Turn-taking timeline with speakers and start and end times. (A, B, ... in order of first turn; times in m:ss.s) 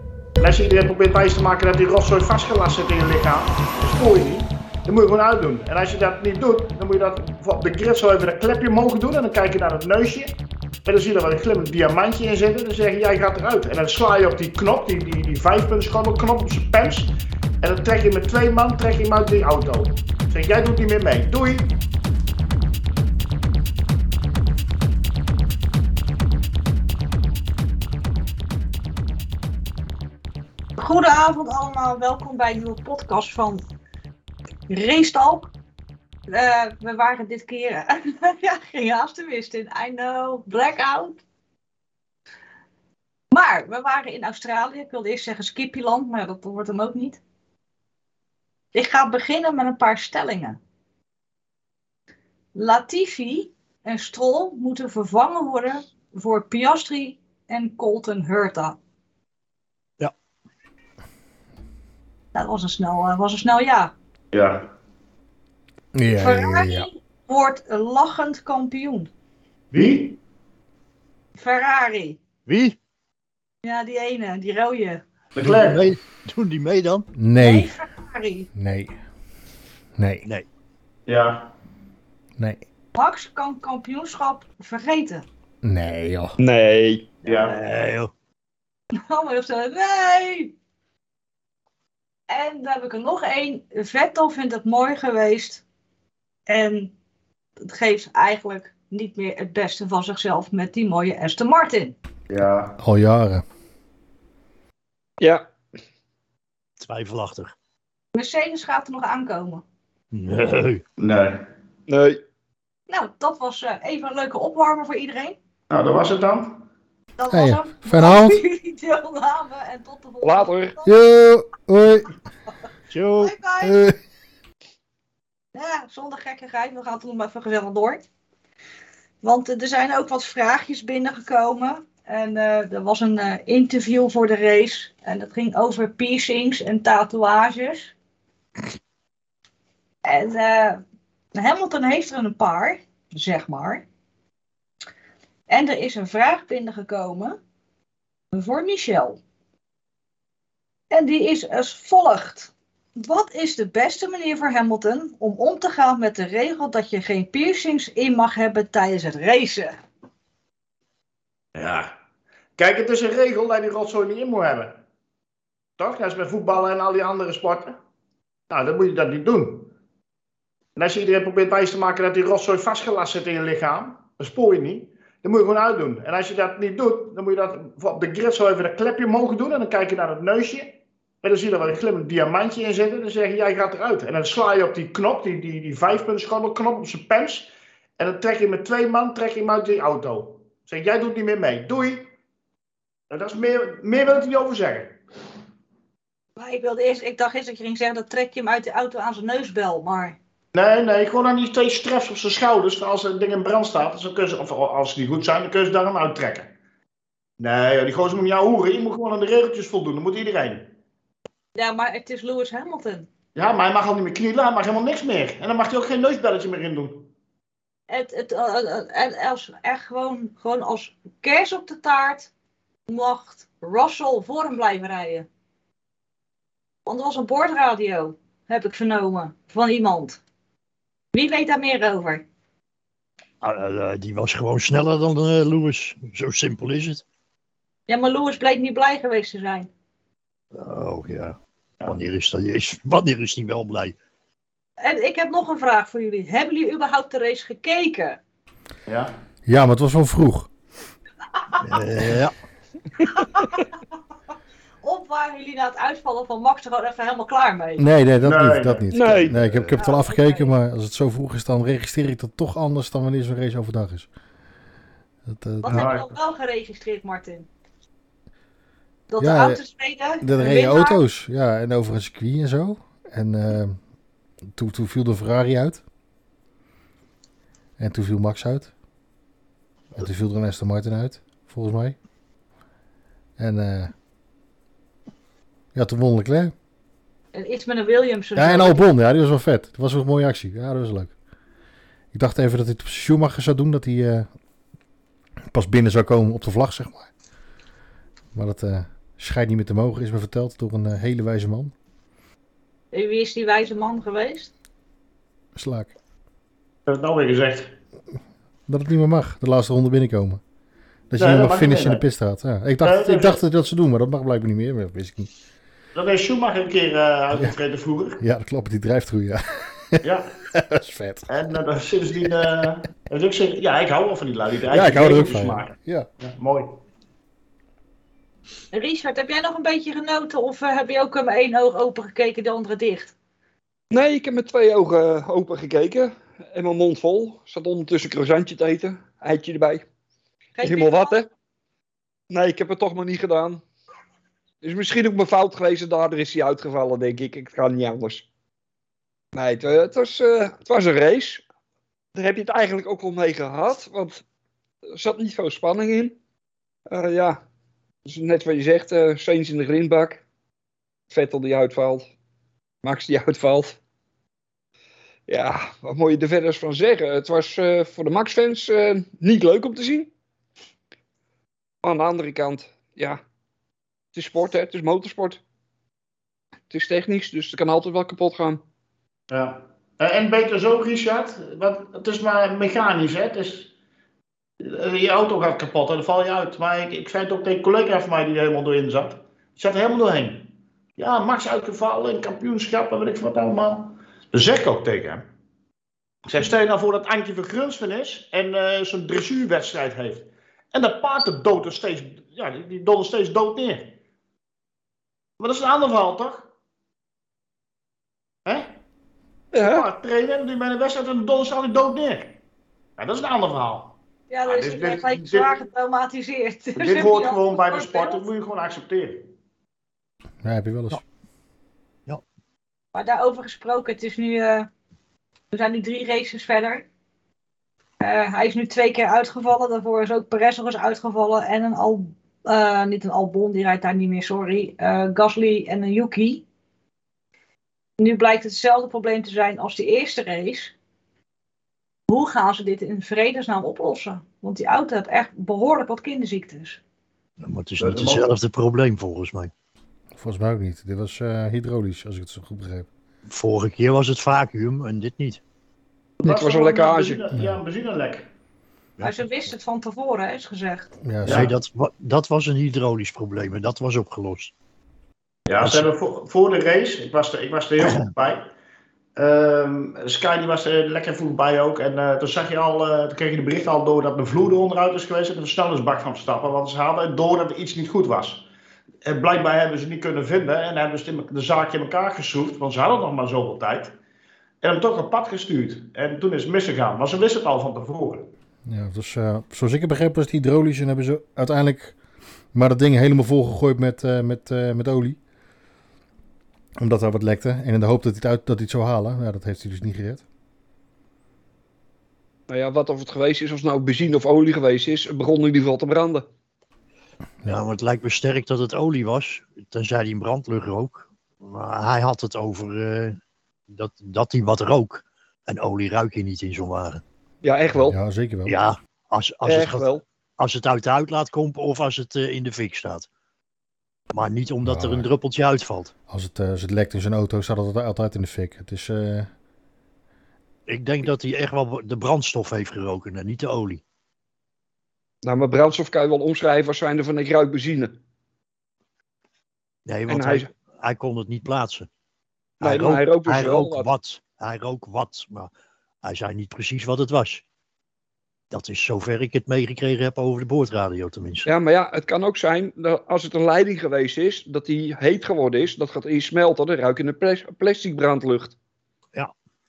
0:00.4-0:21.8 A
0:30.8-0:33.6 B
0:34.7-0:35.5 B
0:36.3-0:41.2 B
0:43.3-0:47.2 B
0:48.7-0:50.6 B
0:52.6-0:58.8 B
1:02.3-1:03.9 B
1:04.3-1:04.7 A
1:06.0-1:06.9 C
1:06.2-1:09.1 B
1:09.7-1:10.0 D
1:09.8-1:10.2 A
1:11.4-1:12.2 B
1:12.5-1:12.8 D
1:13.6-1:15.0 B
1:15.4-1:15.8 A
1:15.4-1:17.1 D
1:17.2-1:17.7 C
1:17.4-1:18.5 B
1:18.6-1:19.0 C
1:20.0-1:20.3 C
1:21.1-1:21.5 A
1:23.0-1:25.3 B
1:25.6-1:26.4 C
1:26.4-1:27.1 E
1:27.2-1:28.1 D
1:27.2-1:27.6 A
1:29.0-1:30.5 B
1:32.3-1:35.6 B
1:36.5-1:36.9 B
1:37.6-1:42.0 B
1:42.3-1:42.8 A
1:42.8-1:43.4 C
1:45.2-1:45.5 E
1:46.8-1:47.5 D
1:48.1-1:49.6 B
1:50.1-1:50.8 D
1:51.0-1:51.4 A
1:51.9-1:52.2 E
1:52.9-1:55.4 B
1:55.7-1:56.6 A
1:57.2-2:00.9 B
1:57.3-1:58.4 C
2:00.2-2:00.8 E
2:00.8-2:02.1 C
2:02.9-2:03.4 D
2:03.2-2:03.8 B
2:03.6-2:04.0 C
2:05.5-2:08.0 B
2:09.2-2:17.9 B
2:20.0-2:20.8 B
2:21.4-2:23.8 B
2:25.5-2:27.4 B
2:28.3-2:29.2 B
2:30.9-2:39.8 B
2:41.6-2:41.9 A
2:42.6-2:44.8 A
2:45.8-2:47.8 A
2:48.5-2:49.7 A
2:50.8-3:12.1 A
3:13.1-3:15.0 A
3:16.4-3:20.2 B
3:20.5-3:26.5 A
3:27.4-3:30.7 A
3:31.6-3:33.1 B
3:33.4-3:37.1 A
3:37.9-3:42.3 B
3:42.9-3:45.3 B
3:46.9-3:50.2 B
3:51.1-3:52.2 B
3:53.4-3:57.0 D
3:57.9-3:59.7 B
4:00.5-4:04.0 D
4:04.8-4:08.2 B
4:08.9-4:09.1 A
4:09.5-4:10.5 C
4:11.6-4:12.3 D
4:13.0-4:13.6 B
4:14.8-4:17.9 B
4:17.8-4:24.1 C
4:18.2-4:19.4 A
4:18.9-4:19.4 E
4:19.8-4:20.5 B
4:25.3-4:25.9 C
4:25.6-4:27.5 B
4:25.7-4:26.1 A
4:29.1-4:31.0 B
4:29.2-4:29.6 C
4:30.2-4:33.8 C
4:34.6-4:35.8 C
4:37.8-4:38.7 C
4:40.0-4:42.0 C
4:43.4-4:43.9 C
4:45.7-4:46.5 C
4:47.3-4:48.9 B
4:48.4-4:51.1 C
4:52.1-4:54.3 C
4:55.5-4:57.1 C
4:58.3-5:01.7 C
5:02.9-5:04.5 B
5:05.6-5:05.9 C
5:06.9-5:07.7 A
5:08.7-5:10.4 C
5:11.1-5:15.3 C
5:11.2-5:12.0 A
5:12.8-5:13.4 A
5:16.0-5:18.2 A
5:18.2-5:21.3 C
5:20.0-5:20.4 A
5:21.3-5:26.8 A
5:24.7-5:26.1 C
5:28.7-5:33.1 B
5:33.9-5:39.8 E
5:40.6-5:41.2 B
5:40.6-5:41.3 E
5:42.3-5:43.6 E
5:44.6-5:48.2 E
5:49.3-5:51.4 E
5:52.1-5:54.2 E
5:54.9-5:56.2 E
5:56.9-5:57.4 E
5:58.0-6:00.2 E
6:01.1-6:02.1 E
6:02.8-6:03.8 E
6:05.3-6:10.1 E
6:11.8-6:13.2 E
6:14.1-6:15.4 E
6:16.7-6:18.6 E
6:19.3-6:23.7 A
6:24.6-6:35.2 A
6:36.2-6:44.0 A
6:45.4-6:46.5 A
6:48.5-6:48.7 A
6:49.5-6:49.9 E
6:49.6-6:52.4 A
6:53.0-6:53.9 A
6:54.3-6:58.3 B
6:54.4-6:55.5 A
6:56.8-6:59.3 A
7:00.4-7:01.0 C
7:02.9-7:04.7 B
7:05.5-7:06.9 B
7:08.0-7:16.4 B
7:18.0-7:20.7 B
7:22.1-7:26.8 B
7:27.4-7:29.5 D
7:27.8-7:28.2 A
7:30.2-7:32.9 C
7:33.3-7:35.4 D
7:36.2-7:38.3 A
7:36.2-7:37.2 E
7:37.3-7:37.6 C
7:39.0-7:40.9 B
7:41.0-7:41.5 C
7:41.2-7:44.5 D
7:41.2-7:41.5 A
7:45.5-7:48.5 A
7:45.6-7:45.9 D
7:49.2-7:58.5 A
7:59.0-8:04.0 A
8:04.6-8:08.3 A
8:08.7-8:12.0 C
8:12.5-8:15.2 C
8:16.8-8:20.2 C
8:22.5-8:26.3 E
8:27.5-8:33.2 D
8:33.7-8:37.0 D
8:37.4-8:38.0 E
8:37.9-8:38.6 C
8:38.5-8:39.9 D
8:39.4-8:40.0 E
8:40.4-8:43.1 D
8:44.1-8:45.9 D
8:44.6-8:45.1 C
8:46.1-8:49.3 C
8:50.7-8:53.8 D
8:55.2-8:58.0 E
8:59.9-9:01.9 D
9:00.1-9:00.5 E
9:02.6-9:05.5 D
9:02.6-9:03.9 E
9:06.0-9:07.4 D
9:08.5-9:11.5 D
9:11.5-9:18.6 E